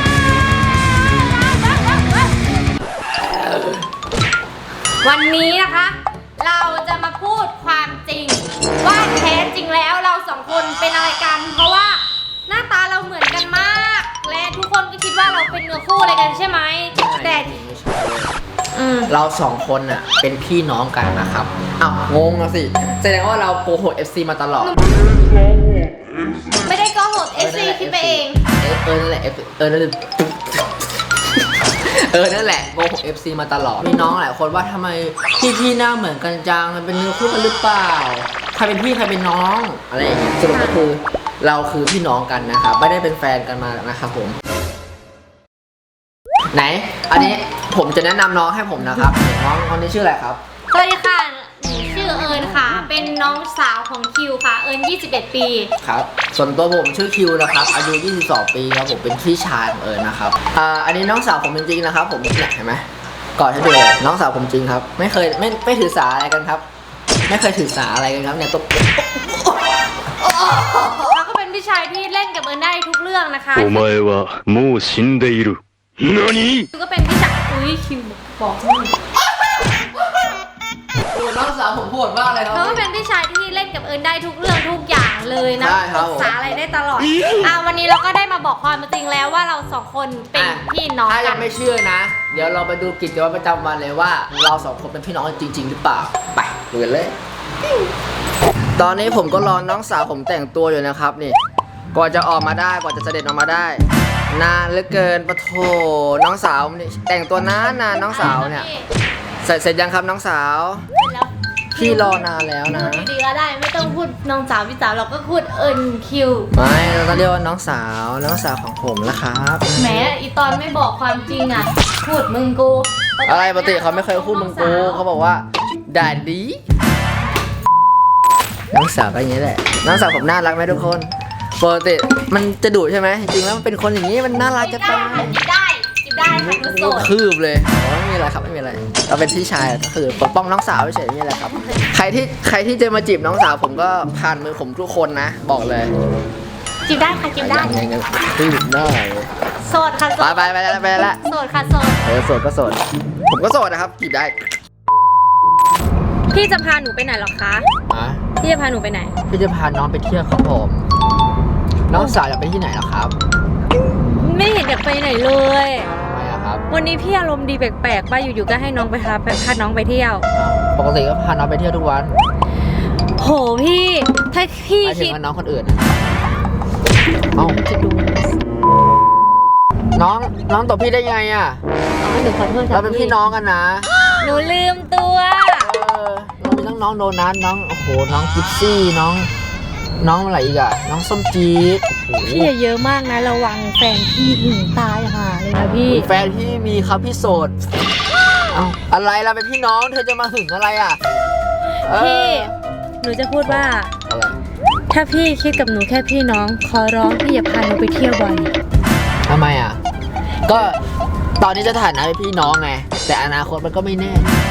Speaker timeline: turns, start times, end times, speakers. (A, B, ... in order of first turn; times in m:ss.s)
0:00.7-0:02.4 A
0:03.1-0:03.8 B
0:05.0-0:17.5 A
0:16.9-0:18.4 B
0:18.7-0:19.1 A
0:19.1-0:24.8 B
0:26.6-0:28.4 A
0:27.4-0:30.7 B
0:31.6-0:44.4 B
0:40.5-0:40.8 A
0:46.5-0:50.4 B
0:50.7-0:55.7 A
0:55.8-1:06.6 B
1:07.3-1:11.2 B
1:11.1-1:13.9 A
1:13.6-1:16.6 C
1:16.7-1:19.0 A
1:19.4-1:20.3 B
1:21.1-1:22.8 B
1:22.5-1:31.5 A
1:25.6-1:26.4 B
1:30.4-1:37.2 B
1:38.8-1:41.4 B
1:41.9-1:48.7 B
1:48.1-1:48.9 A
1:49.4-1:50.8 B
1:51.0-1:56.5 A
1:51.7-1:53.1 B
1:56.5-2:00.0 B
1:59.7-2:05.0 A
2:03.2-2:06.6 B
2:08.7-2:15.4 B
2:14.5-2:17.1 A
2:16.5-2:25.9 B
2:26.9-2:27.8 A
2:27.4-2:29.3 B
2:29.6-2:32.0 A
2:30.2-2:31.2 B
2:32.0-2:34.5 B
2:36.3-2:37.7 A
2:37.9-2:38.2 B
2:38.4-2:39.1 A
2:39.3-2:40.9 B
2:41.9-2:43.2 B
2:41.9-2:42.2 A
2:44.0-2:45.9 A
2:45.9-2:46.6 B
2:46.7-2:50.3 A
2:50.4-2:52.2 B
2:53.2-2:55.2 A
2:54.8-2:56.2 B
2:57.3-2:58.4 A
3:00.0-3:01.6 B
3:02.0-3:03.2 A
3:02.7-3:03.9 B
3:04.2-3:05.7 A
3:05.6-3:09.3 B
3:10.0-3:12.5 B
3:12.2-3:16.1 A
3:15.9-3:17.6 B
3:18.5-3:21.0 B
3:21.8-3:22.6 B
3:21.9-3:23.9 A
3:23.4-3:24.4 B
3:24.9-3:28.5 A
3:29.3-3:29.8 B
3:30.5-3:30.8 B
3:31.4-3:34.3 B